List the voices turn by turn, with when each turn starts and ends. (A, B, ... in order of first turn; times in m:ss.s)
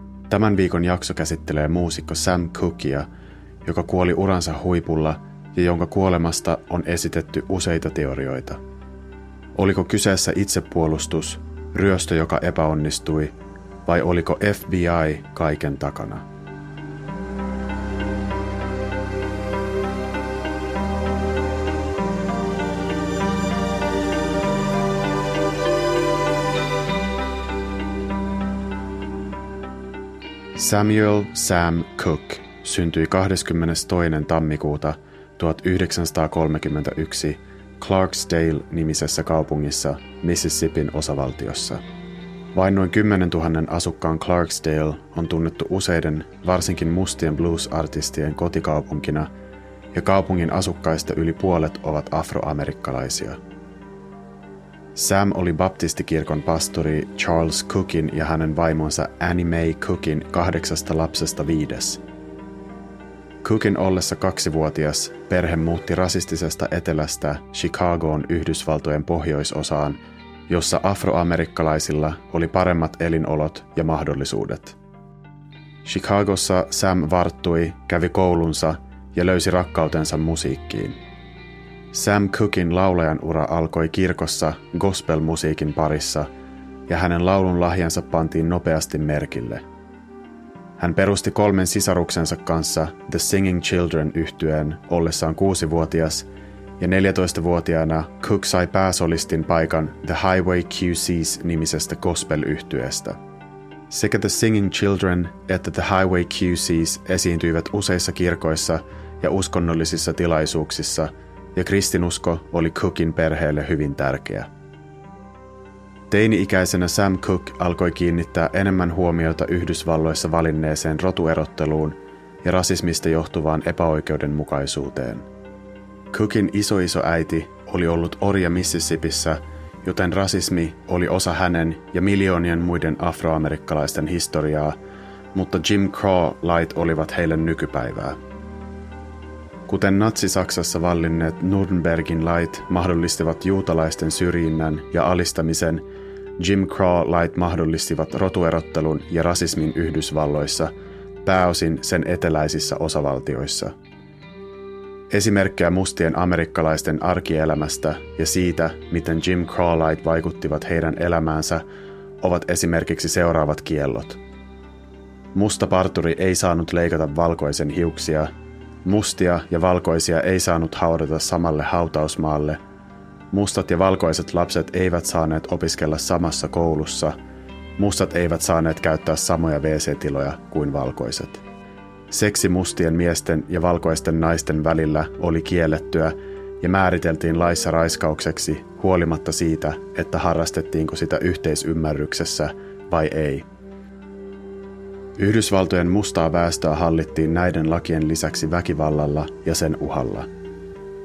0:00.3-0:03.1 A
0:03.6-0:08.6 A
0:09.5-0:13.3 A
0:13.8-0:16.2 A
0:30.5-0:41.8 A
0:42.5-0:49.3 A
0:49.9-0:53.4 A
0:54.9-1:02.0 A
1:03.4-1:14.8 A
1:15.8-1:21.0 A
1:21.9-1:26.3 A
1:26.9-1:29.6 A
1:30.8-1:36.3 A
1:36.8-1:43.2 A
1:43.9-1:54.5 A
1:56.1-2:05.2 A
2:06.1-2:14.8 A
2:15.3-2:18.2 A
2:19.7-2:25.8 A
2:26.4-2:30.7 A
2:31.2-2:33.7 A
2:35.1-2:41.6 A
2:42.2-2:44.2 A
2:45.3-2:48.3 A
2:48.8-2:52.6 A
2:53.3-2:57.1 A
2:57.8-3:01.4 A
3:02.1-3:13.4 A
3:15.2-3:20.3 A